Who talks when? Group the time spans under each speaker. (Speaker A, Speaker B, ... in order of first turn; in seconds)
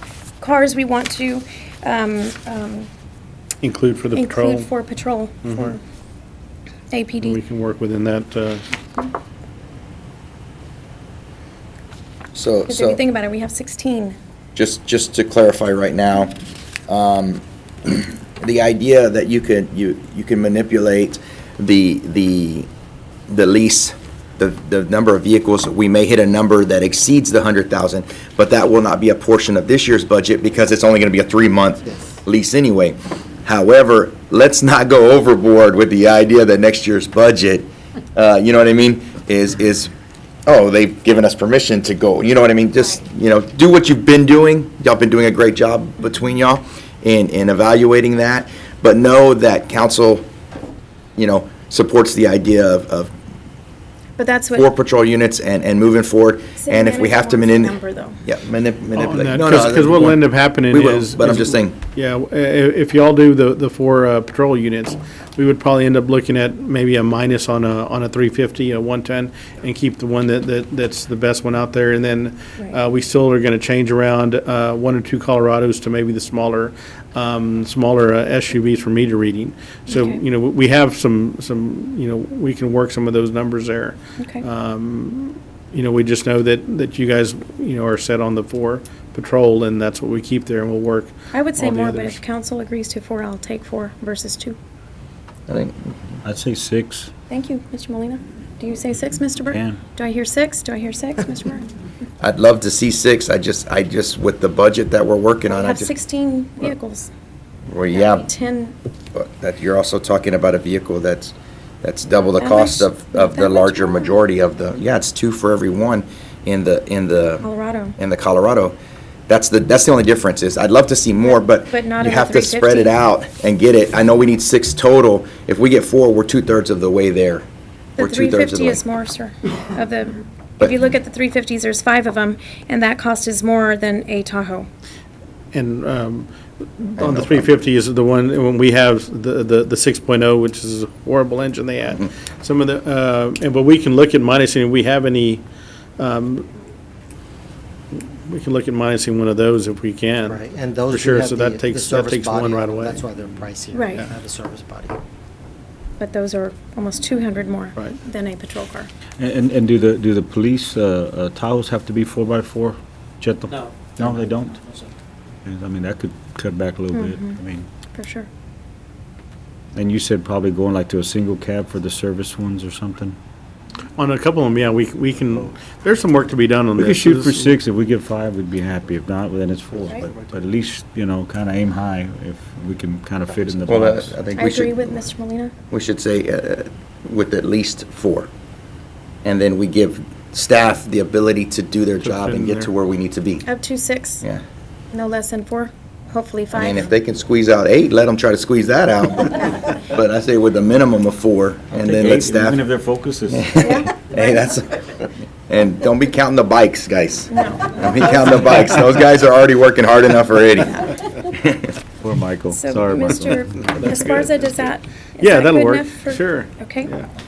Speaker A: 0.4-2.9, 4.1-5.8, 6.9-7.4, 12.7-14.2, 54.2-54.7, 56.6-58.2, 79.9-80.2, 84.2-84.4, 91.3-94.6, 97.3-101.7, 105.6-107.1, 107.9-108.7, 112.4-114.1, 117.4-118.0, 121.2-123.0, 128.0-134.7, 153.7-154.1, 156.0-158.9, 166.9-167.4, 167.9-168.3, 184.4-185.5, 193.4-194.2, 194.9-196.9, 203.6-204.2, 207.3-208.5, 212.5-216.9
Speaker B: 3.6-4.7, 5.4-5.8, 7.2-8.6, 59.0-92.2, 135.5-145.4, 146.0-146.5, 147.9-153.1, 174.0-177.5, 192.0-192.7, 213.7-214.7, 215.2-217.1
Speaker C: 12.3-13.0, 14.6-16.3, 16.9-22.7, 23.3-39.9, 40.5-50.3, 51.2-53.1, 54.5-61.8, 95.5-95.9, 102.2-105.9, 107.7-108.3, 109.1-117.5, 118.0-118.7, 119.3-127.5, 128.0-128.8, 137.0-137.6, 183.7-185.1, 185.7-188.3, 189.2-193.5, 196.5-202.6, 203.3-211.8
Speaker D: 96.2-97.1, 99.5-99.8, 159.2-164.6, 165.4-167.7, 169.8-173.2, 176.8-184.2, 201.8-203.6, 212.0-213.5
Speaker E: 150.2-155.0, 163.6-164.9, 179.9-180.2